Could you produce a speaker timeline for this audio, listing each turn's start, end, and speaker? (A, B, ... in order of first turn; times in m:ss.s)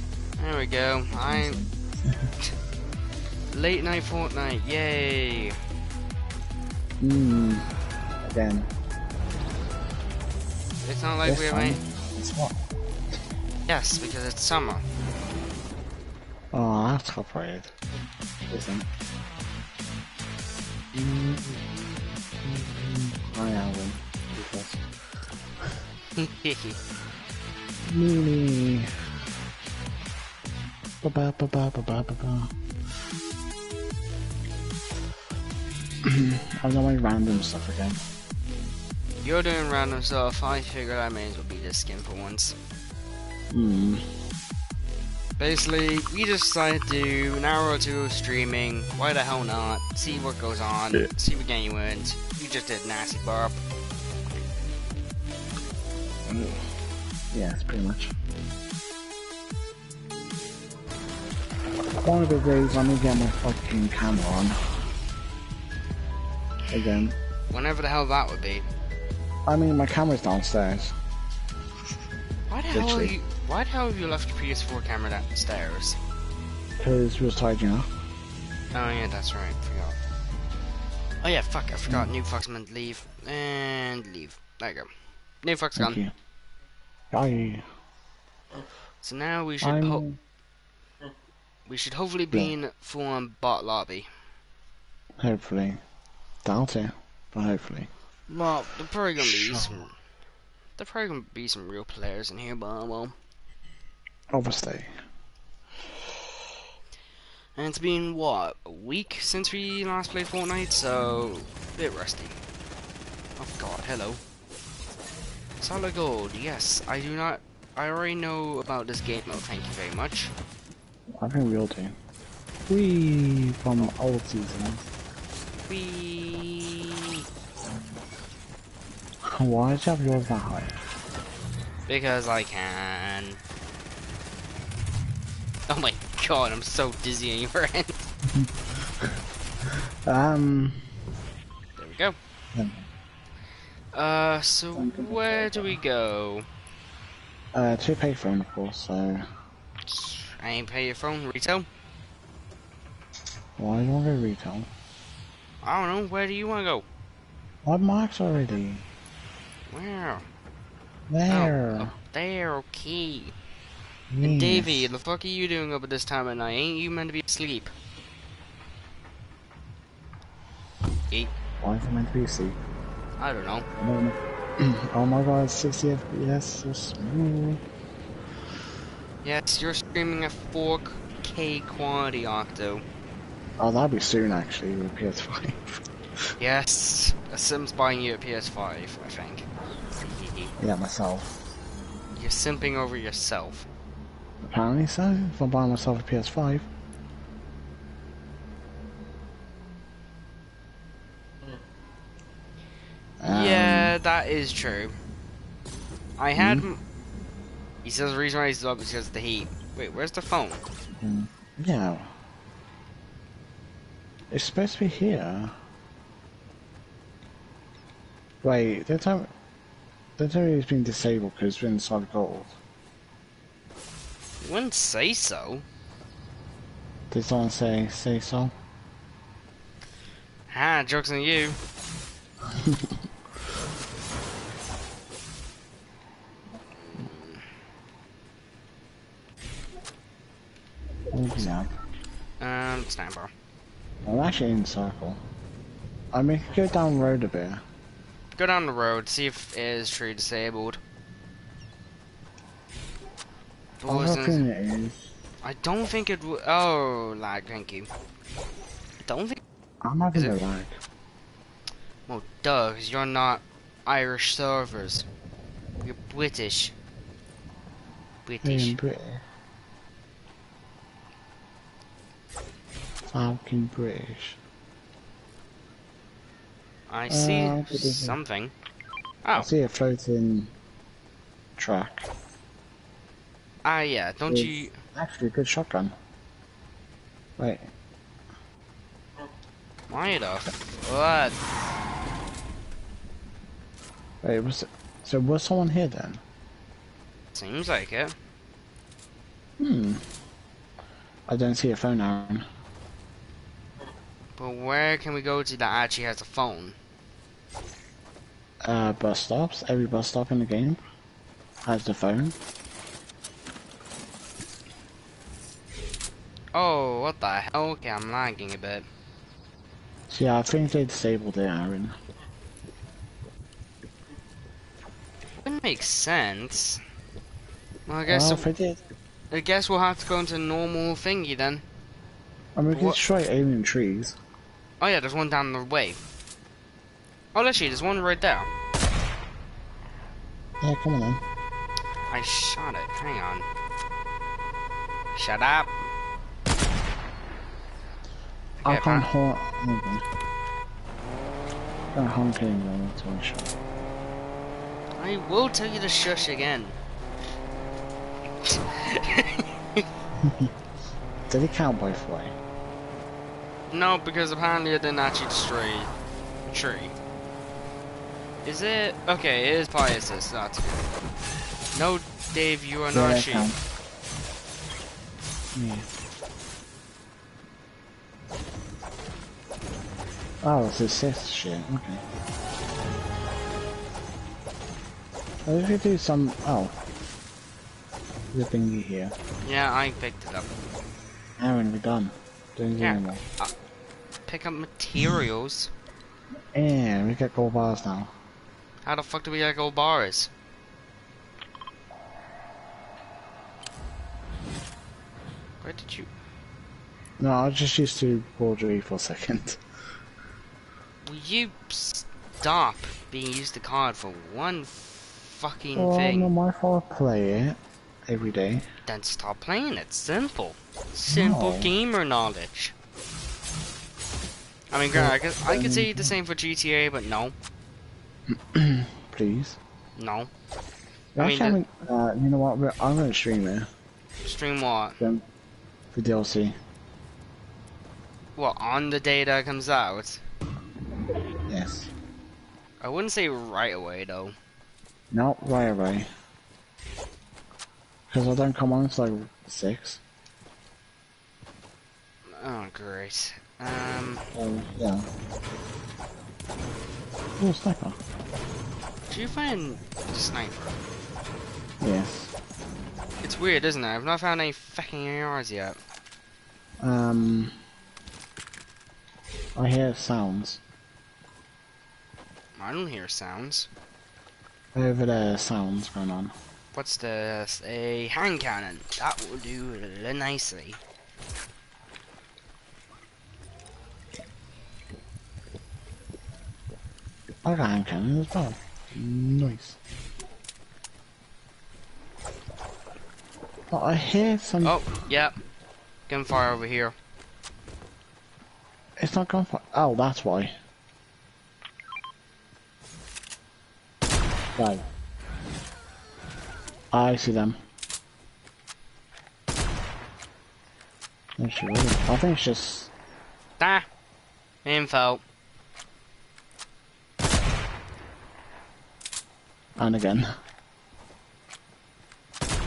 0:00.4-0:01.6 A
0:01.1-0:02.3 B
0:03.5-0:05.6 A
0:07.0-0:08.7 B
0:10.8-0:11.8 A
0:11.2-0:12.6 B
0:13.7-0:14.8 A
0:16.5-0:17.7 B
0:18.5-0:18.9 B
0:20.9-0:21.8 B
0:22.4-0:24.8 B
0:26.2-0:26.8 A
0:27.9-0:28.9 B
0:31.0-0:32.5 B
0:36.0-0:38.0 B
0:39.2-0:42.6 A
0:43.5-0:44.0 B
0:45.4-0:53.6 A
0:56.3-0:56.7 B
0:57.3-0:58.2 B
1:02.0-1:04.6 B
1:06.7-1:07.2 B
1:07.5-1:08.7 A
1:09.5-1:11.0 B
1:12.5-1:16.0 A
1:12.7-1:13.2 B
1:16.8-1:17.9 B
1:18.7-1:20.0 A
1:21.2-1:24.9 A
1:25.4-1:26.0 A
1:25.8-1:26.1 B
1:27.1-1:27.6 B
1:29.0-1:30.0 A
1:29.6-1:30.2 B
1:31.7-1:34.1 A
1:35.2-1:35.8 B
1:36.4-1:37.9 B
1:38.3-1:39.9 A
1:39.2-1:39.8 B
1:40.8-1:43.2 A
1:44.3-1:44.9 B
1:47.6-1:52.4 A
1:53.4-1:54.2 A
1:55.6-2:00.3 A
2:01.1-2:02.0 B
2:02.7-2:04.9 B
2:05.7-2:07.2 A
2:09.4-2:10.8 B
2:11.9-2:13.4 A
2:15.7-2:17.9 A
2:18.3-2:19.1 B
2:19.7-2:20.9 B
2:21.8-2:22.2 A
2:22.5-2:22.9 B
2:23.9-2:26.5 A
2:24.8-2:25.8 B
2:27.5-2:29.3 B
2:29.9-2:31.7 A
2:33.6-2:34.7 B
2:35.6-2:36.9 A
2:37.6-2:38.8 B
2:39.7-2:40.2 A
2:41.1-2:41.9 B
2:41.3-2:43.3 A
2:44.1-2:44.9 B
2:44.2-2:47.7 A
2:51.6-2:52.6 B
2:53.2-2:53.7 A
2:53.8-2:57.6 B
2:59.2-3:02.8 A
3:03.6-3:05.6 B
3:06.4-3:09.5 A
3:10.0-3:10.5 A
3:10.6-3:11.4 B
3:12.2-3:13.7 A
3:14.5-3:16.7 B
3:23.2-3:24.0 B
3:23.3-3:24.9 A
3:26.2-3:26.8 A
3:26.4-3:26.7 B
3:27.8-3:30.6 A
3:31.0-3:32.1 B
3:34.3-3:35.6 B
3:38.4-3:39.3 B
3:40.2-3:42.6 B
3:44.4-3:45.6 A
3:47.1-3:48.5 B
3:50.5-3:51.6 A
3:52.6-3:53.0 B
3:57.0-3:57.4 A
4:01.1-4:01.7 B
4:02.4-4:03.3 A
4:04.0-4:05.2 B
4:06.1-4:07.6 B
4:08.4-4:10.8 A
4:13.8-4:14.5 A
4:13.9-4:15.1 B
4:15.4-4:17.9 A
4:19.0-4:19.4 A
4:19.8-4:20.8 B
4:22.1-4:25.1 A
4:25.8-4:26.8 A
4:28.2-4:28.8 A
4:28.4-4:29.2 B
4:33.1-4:34.4 B
4:36.9-4:38.5 A
4:37.1-4:38.2 B
4:39.4-4:40.5 B
4:41.6-4:42.1 B
4:43.6-4:44.8 A
4:44.3-4:46.0 B
4:47.4-4:47.7 B
4:49.9-4:51.4 A
4:54.2-4:56.2 B
4:57.3-4:58.2 A
4:59.6-5:00.0 B
5:01.3-5:02.5 B
5:04.4-5:06.8 A
5:08.6-5:10.8 B
5:11.6-5:12.4 B
5:16.5-5:18.9 A
5:20.1-5:22.0 B
5:25.4-5:26.8 A
5:27.9-5:28.5 A
5:28.1-5:28.8 B
5:29.3-5:31.6 A
5:32.6-5:34.2 B
5:32.7-5:33.0 A
5:34.8-5:36.0 A
5:37.4-5:38.5 A
5:40.6-5:41.2 B
5:42.1-5:43.5 A
5:45.2-5:45.7 A
5:48.6-5:49.1 A
5:48.6-5:50.0 B
5:51.9-5:53.6 B
5:55.0-5:56.8 A
5:58.4-5:59.8 A
6:00.2-6:00.5 B
6:01.3-6:02.4 B
6:03.7-6:05.9 A
6:06.5-6:06.9 A
6:08.4-6:10.8 A
6:11.8-6:13.5 A
6:12.9-6:13.6 B
6:15.6-6:15.9 B
6:20.4-6:22.0 B
6:25.4-6:26.8 B
6:28.3-6:29.2 B
6:29.4-6:30.5 A
6:31.4-6:33.2 B
6:32.8-6:33.5 A
6:34.3-6:35.7 A
6:36.5-6:38.1 B
6:38.8-6:40.3 A
6:45.6-6:46.1 A
6:47.2-6:49.6 B
6:51.0-6:56.3 A
6:55.8-6:58.7 B
6:58.9-7:02.8 A
7:01.1-7:01.7 B
7:04.7-7:07.4 A
7:04.9-7:06.2 B
7:08.3-7:09.6 B
7:10.0-7:10.3 A
7:11.2-7:13.7 B
7:11.2-7:11.6 A
7:14.2-7:15.0 A
7:15.9-7:16.6 B
7:18.4-7:20.2 A
7:21.5-7:21.9 B
7:22.8-7:24.4 A
7:25.1-7:26.1 B
7:28.1-7:30.0 B
7:32.3-7:34.2 A
7:34.4-7:35.1 B
7:37.4-7:38.0 B
7:39.1-7:40.8 A
7:41.8-7:42.3 B
7:43.2-7:45.8 A
7:46.8-7:47.6 B
7:49.6-7:50.6 B
7:52.6-7:53.7 A
7:54.7-7:56.3 B
7:56.7-8:00.8 A
8:07.4-8:09.8 B
8:13.7-8:14.8 B
8:14.6-8:15.4 A
8:16.1-8:17.0 A
8:19.0-8:20.6 B
8:24.6-8:24.8 B
8:26.9-8:27.6 B
8:31.4-8:32.9 B
8:33.6-8:33.9 A
8:34.6-8:35.2 A
8:39.8-8:40.3 B